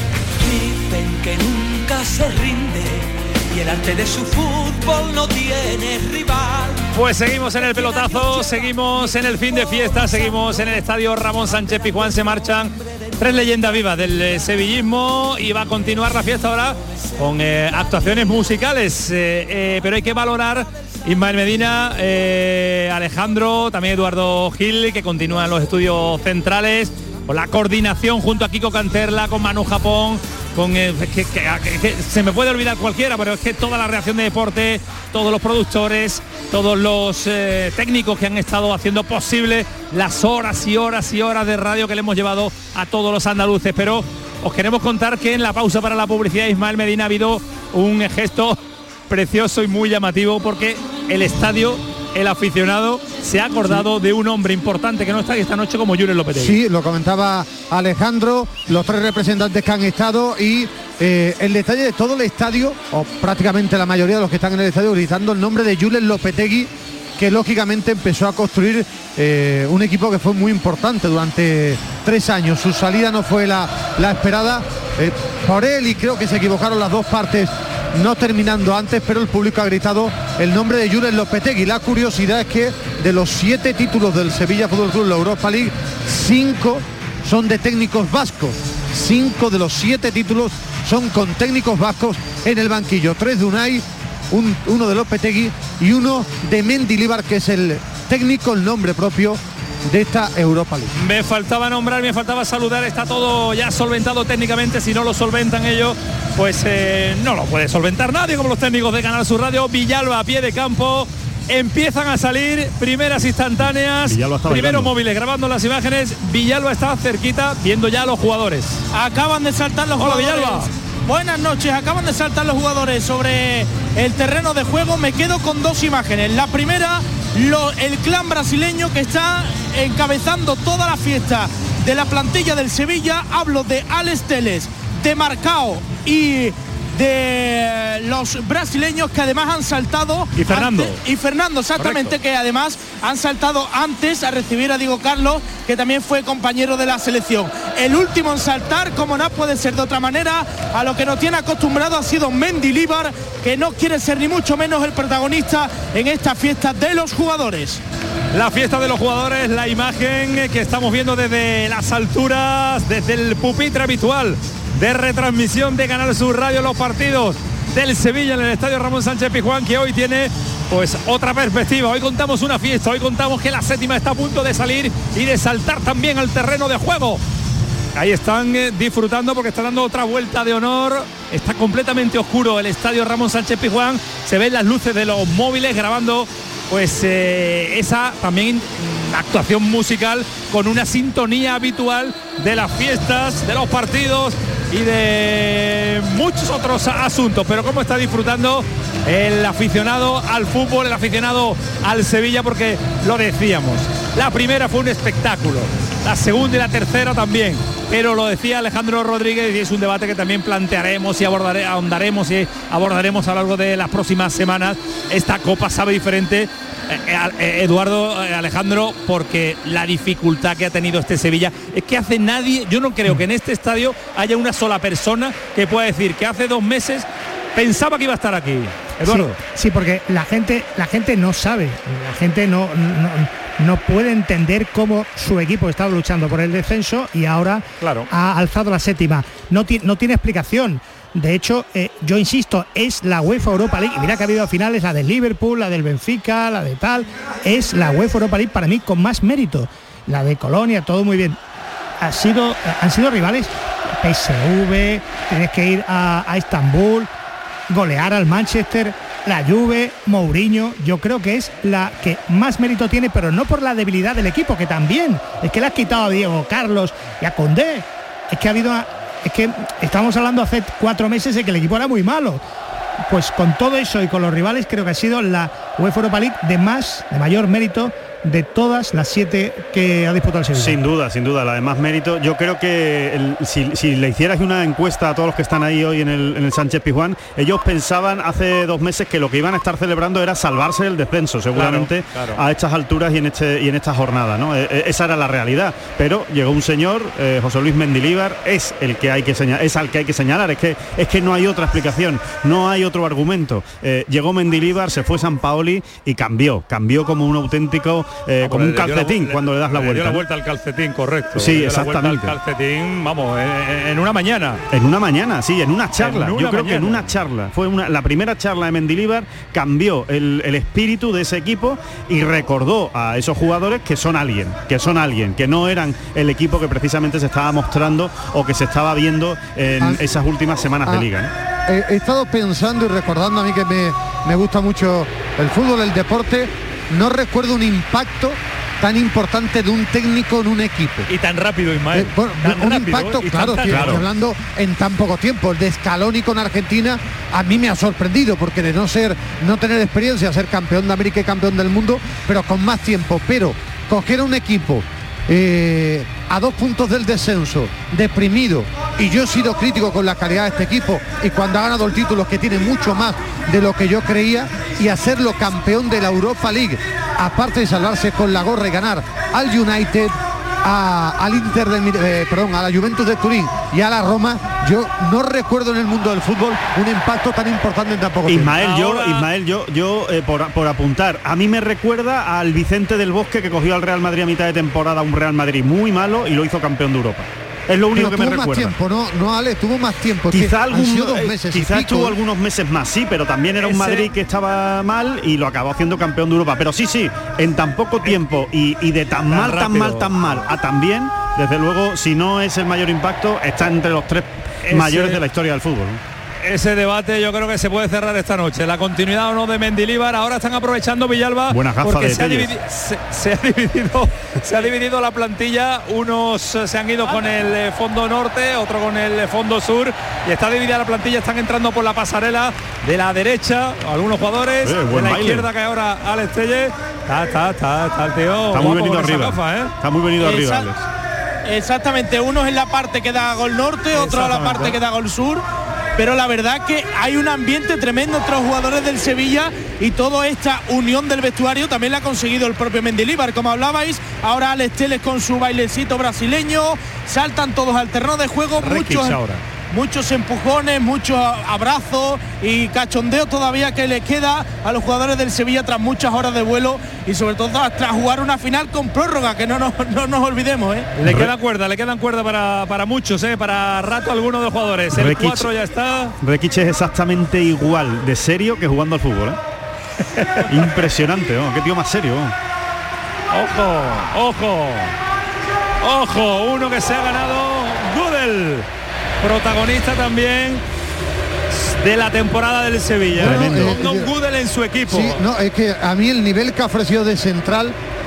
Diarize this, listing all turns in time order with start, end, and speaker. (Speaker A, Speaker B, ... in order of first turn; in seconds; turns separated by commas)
Speaker A: 0.4-6.8, Speaker B: 6.9-56.6, Speaker C: 56.4-101.0, Speaker B: 101.0-118.8, Speaker D: 114.1-114.9, Speaker E: 118.9-157.8, Speaker B: 120.0-120.7, Speaker B: 140.3-141.0, Speaker B: 141.8-142.2, Speaker B: 158.3-177.2, Speaker B: 177.9-229.4, Speaker F: 229.0-251.4, Speaker B: 237.8-238.1, Speaker F: 252.0-257.1, Speaker F: 257.7-272.4, Speaker F: 273.1-280.8, Speaker D: 280.5-310.2, Speaker B: 291.5-292.4, Speaker B: 308.4-314.6, Speaker D: 311.4-312.4, Speaker D: 314.7-331.3, Speaker B: 316.0-317.1, Speaker C: 331.7-341.1, Speaker B: 341.1-344.0, Speaker C: 341.9-378.6, Speaker D: 343.7-344.0, Speaker D: 378.3-388.8, Speaker B: 378.6-379.3, Speaker C: 387.9-392.2, Speaker D: 390.3-406.0, Speaker B: 393.6-394.1, Speaker B: 399.3-400.4, Speaker B: 404.6-405.2, Speaker B: 406.4-429.7, Speaker D: 411.5-412.5, Speaker D: 424.6-425.5, Speaker D: 428.5-430.8, Speaker E: 430.2-430.7, Speaker E: 431.4-435.4, Speaker B: 433.9-434.8, Speaker E: 436.0-460.9, Speaker B: 448.6-449.4, Speaker B: 461.0-466.1, Speaker D: 461.0-461.3, Speaker D: 464.9-465.5, Speaker D: 466.2-469.4, Speaker B: 470.1-470.7, Speaker D: 470.5-472.4, Speaker B: 473.3-474.9, Speaker B: 475.8-478.7, Speaker B: 479.2-480.6, Speaker B: 481.5-485.2, Speaker C: 483.1-484.1, Speaker D: 483.2-483.8, Speaker C: 484.9-487.8